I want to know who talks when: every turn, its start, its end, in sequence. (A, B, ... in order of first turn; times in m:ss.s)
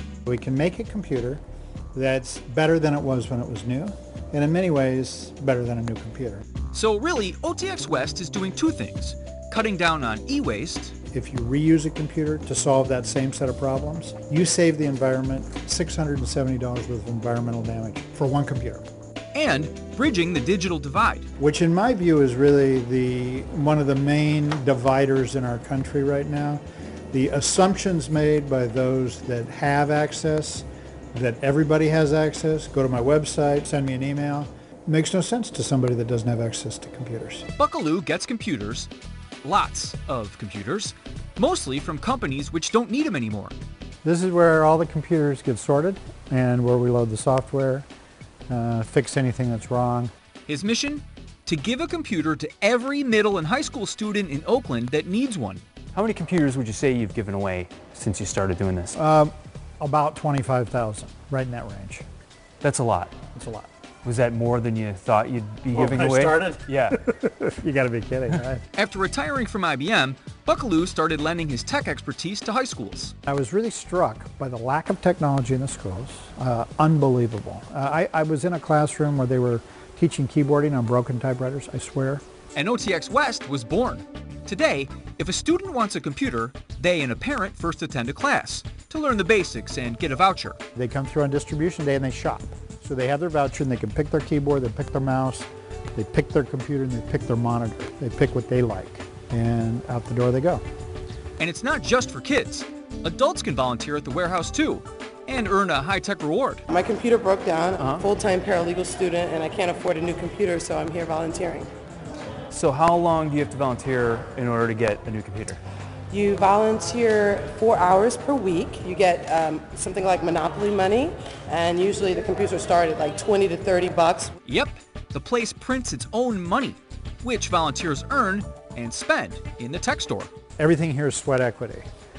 0:00.3-0:01.4 A
0:01.9-0:06.4 A
0:06.7-0:10.9 B
0:11.1-0:18.8 A
0:19.3-0:21.3 B
0:21.4-0:26.6 A
0:27.1-0:37.5 A
0:37.6-0:38.9 B
0:39.4-0:43.6 B
0:44.0-0:47.9 A
0:48.5-0:50.1 A
0:50.5-0:55.6 B
0:56.0-0:58.9 C
0:58.9-1:02.0 A
1:02.6-1:03.2 C
1:03.3-1:03.7 A
1:04.0-1:07.0 C
1:05.8-1:08.6 A
1:08.8-1:13.1 B
1:13.3-1:22.2 A
1:22.6-1:30.6 B
1:30.8-1:40.6 A
1:41.4-1:46.6 B
1:46.7-1:51.7 D
1:47.8-1:48.1 B
1:52.5-1:55.6 C
1:56.1-2:04.4 D
2:04.4-2:10.3 B
2:10.6-2:11.8 A